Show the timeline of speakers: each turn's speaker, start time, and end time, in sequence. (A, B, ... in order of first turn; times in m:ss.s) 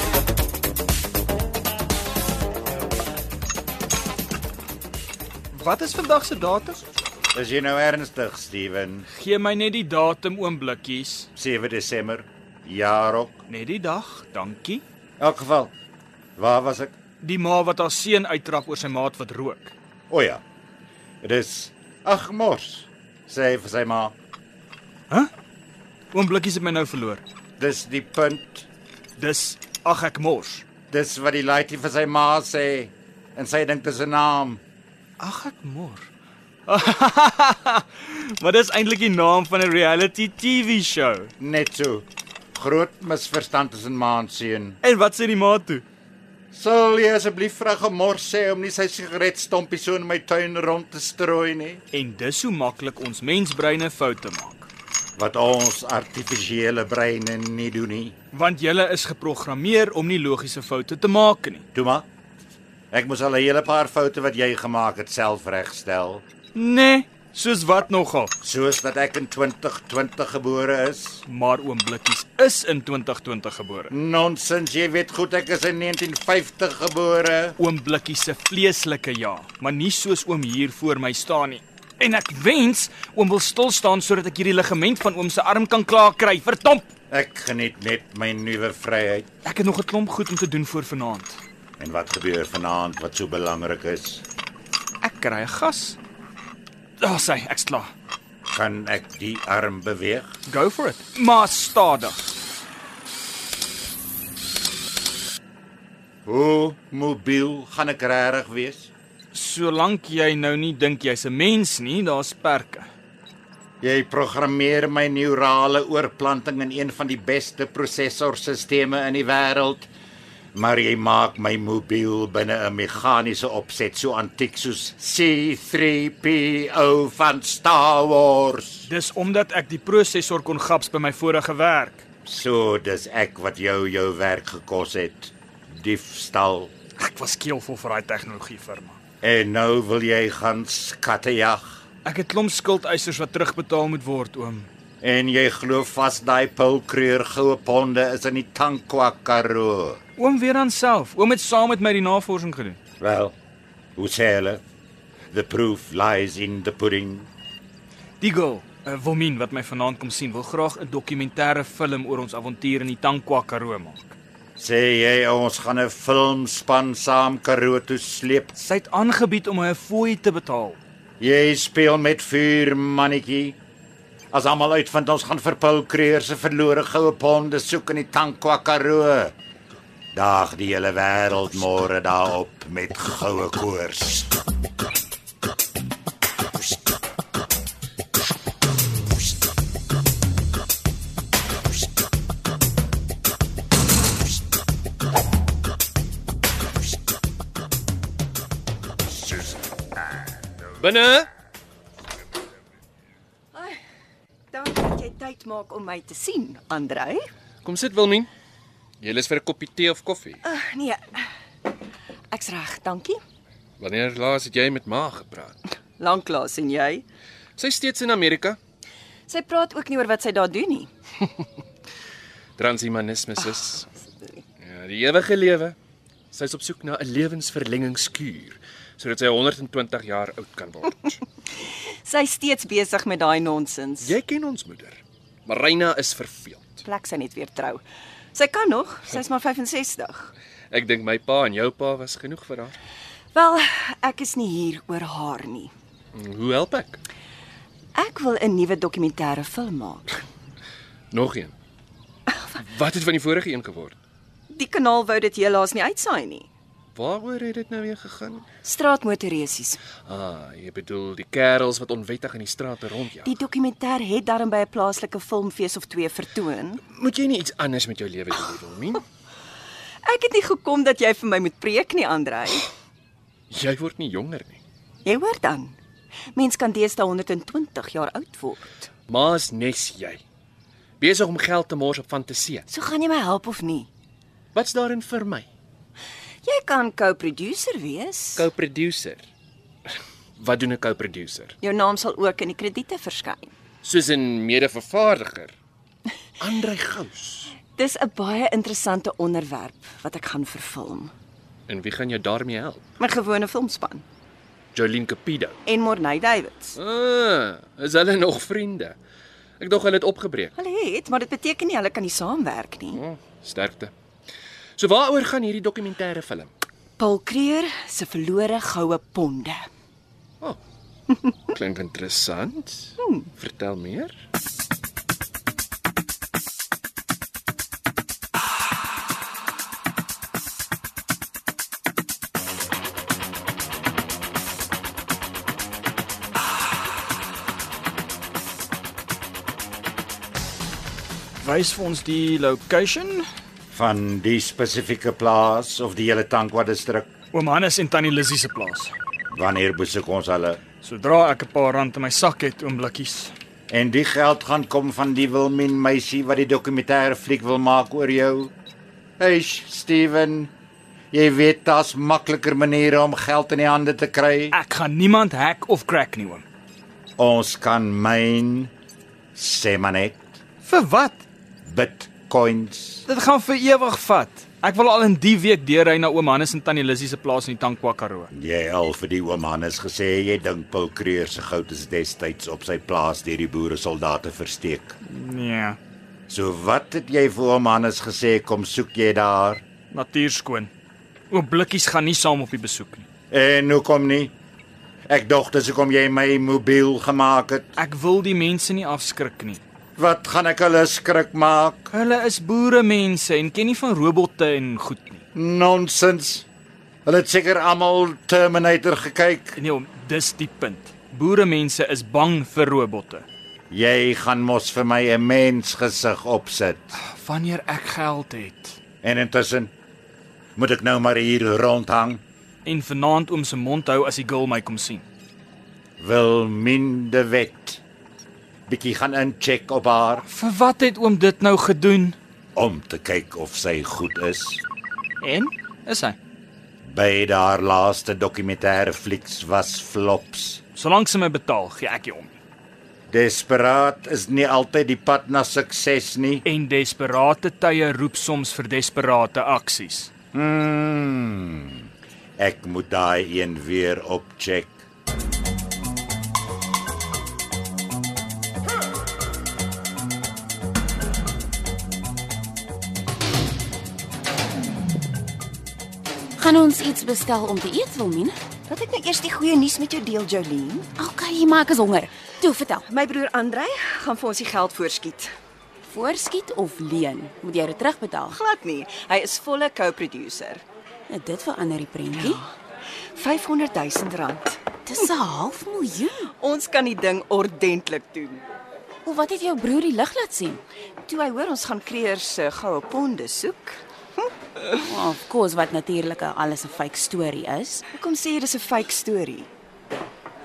0:05.5-0:06.8 A
0:07.3-0:09.0 B
0:09.2-0:11.3 A
0:11.4-0:13.4 B
0:13.5-0:14.8 A
0:15.2-0:15.7 B
0:16.4-0:16.9 B
0:17.2-0:19.7 A
0:20.1-0:20.4 B
0:21.2-0:24.1 B
0:26.1-0:27.2 A
0:27.6-0:28.7 B
0:29.2-0:30.6 A
0:30.9-0:34.6 B
0:35.2-0:36.1 A
0:36.7-0:41.3 A
0:41.4-0:44.8 B
0:44.8-0:45.8 A
0:46.5-0:51.8 B
0:51.9-0:54.7 A
0:55.2-0:58.1 B
0:58.3-1:01.6 A
1:01.7-1:02.1 B
1:02.9-1:06.2 B
1:06.5-1:08.3 A
1:08.4-1:11.2 B
1:11.3-1:13.9 A
1:13.9-1:17.6 B
1:17.6-1:26.9 A
1:27.1-1:29.3 B
1:29.4-1:31.4 A
1:31.8-1:34.2 B
1:35.0-1:36.0 A
1:37.0-1:37.9 A
1:38.5-1:40.3 B
1:40.5-1:42.3 A
1:46.2-1:48.9 B
1:49.3-1:52.9 A
1:53.8-1:59.9 B
2:00.5-2:08.9 B
2:08.9-2:12.0 A
2:12.2-2:16.7 B
2:17.0-2:19.0 A
2:19.2-2:21.8 B
2:22.0-2:24.7 A
2:25.0-2:30.0 B
2:30.2-2:32.8 A
2:33.0-2:33.3 B
2:34.0-2:34.6 B
2:35.3-2:37.3 B
2:38.2-2:44.2 A
2:44.6-2:48.5 B
2:48.6-2:50.8 A
2:51.2-2:53.6 B
2:54.3-2:59.3 B
3:00.1-3:04.3 B
3:20.8-3:21.3 C
3:23.5-3:23.8 D
3:24.5-3:27.2 D
3:27.6-3:28.3 C
3:29.0-3:30.4 C
3:30.4-3:31.3 D
3:32.3-3:33.2 D
3:33.8-3:35.6 C
3:36.0-3:37.0 D
3:37.6-3:38.6 C
3:39.3-3:40.9 D
3:42.6-3:43.9 C
3:44.6-3:45.8 C
3:46.3-3:51.2 C
3:52.0-3:54.2 D
3:54.0-3:56.8 C
3:56.8-3:57.8 D
3:58.3-4:00.3 D
4:00.7-4:02.7 C
4:03.3-4:05.7 D
4:06.1-4:07.0 C
4:07.9-4:10.2 D
4:11.1-4:11.5 C
4:12.5-4:14.0 C
4:14.5-4:16.5 D
4:16.9-4:18.4 C
4:18.6-4:19.8 D
4:20.0-4:23.3 C
4:23.2-4:26.8 D
4:26.8-4:29.0 C
4:30.0-4:32.7 D
4:33.5-4:34.6 C
4:35.0-4:35.8 D
4:36.3-4:38.9 D
4:39.1-4:40.2 C
4:41.0-4:42.6 C
4:42.7-4:43.9 D
4:44.5-4:45.5 C
4:46.4-4:48.5 D
4:48.4-4:49.2 C
4:50.4-4:51.6 C
4:51.6-4:53.5 D
4:53.8-4:55.5 C
4:56.4-4:57.6 C
4:57.8-5:01.1 D
5:01.7-5:02.8 C
5:03.0-5:04.0 D
5:04.7-5:05.6 C
5:05.6-5:06.8 D
5:06.8-5:09.0 C
5:09.6-5:10.5 C
5:10.6-5:13.0 D
5:12.9-5:13.9 C
5:14.8-5:16.5 C
5:17.0-5:19.7 D
5:21.5-5:24.1 C
5:41.4-5:43.2 A
5:43.7-5:47.1 B
5:47.3-5:48.9 A
5:49.3-5:50.6 B
5:50.8-5:53.3 A
5:53.7-5:58.5 B
5:59.2-6:00.5 B
6:01.1-6:04.5 B
6:04.5-6:06.4 A
6:07.2-6:08.7 B
6:09.3-6:10.4 B
6:10.6-6:11.2 A
6:11.6-6:13.0 B
6:13.1-6:18.3 A
6:18.3-6:24.9 B
6:25.1-6:25.8 A
6:26.3-6:29.6 B
6:29.9-6:30.7 A
6:31.3-6:33.0 A
6:33.3-6:34.3 B
6:35.1-6:37.7 B
6:37.8-6:39.6 A
6:40.0-6:41.9 B
6:41.9-6:45.2 A
6:45.3-6:46.4 B
6:47.0-6:49.6 B
6:49.6-6:53.2 A
6:53.7-6:56.9 B
6:57.0-6:58.8 A
6:59.0-6:59.7 B
7:00.6-7:02.2 B
7:02.6-7:05.0 A
7:06.0-7:07.8 B
7:08.7-7:10.2 B
7:10.2-7:12.2 A
7:12.5-7:14.6 B
7:15.2-7:16.2 A
7:16.8-7:20.6 B
7:20.7-7:22.4 A
7:23.1-7:26.4 B
7:26.4-7:30.1 A
7:30.3-7:34.8 B
7:46.4-7:48.3 E
7:48.7-7:50.9 D
7:51.0-7:52.8 E
7:52.9-7:55.3 D
7:55.8-7:58.4 E
7:58.3-8:00.6 D
8:01.1-8:02.4 E
8:02.1-8:02.4 D
8:03.1-8:04.6 D
8:04.8-8:06.3 E
8:06.4-8:08.4 D
8:09.0-8:10.6 E
8:11.0-8:14.3 D
8:14.7-8:17.9 E
8:17.9-8:19.5 D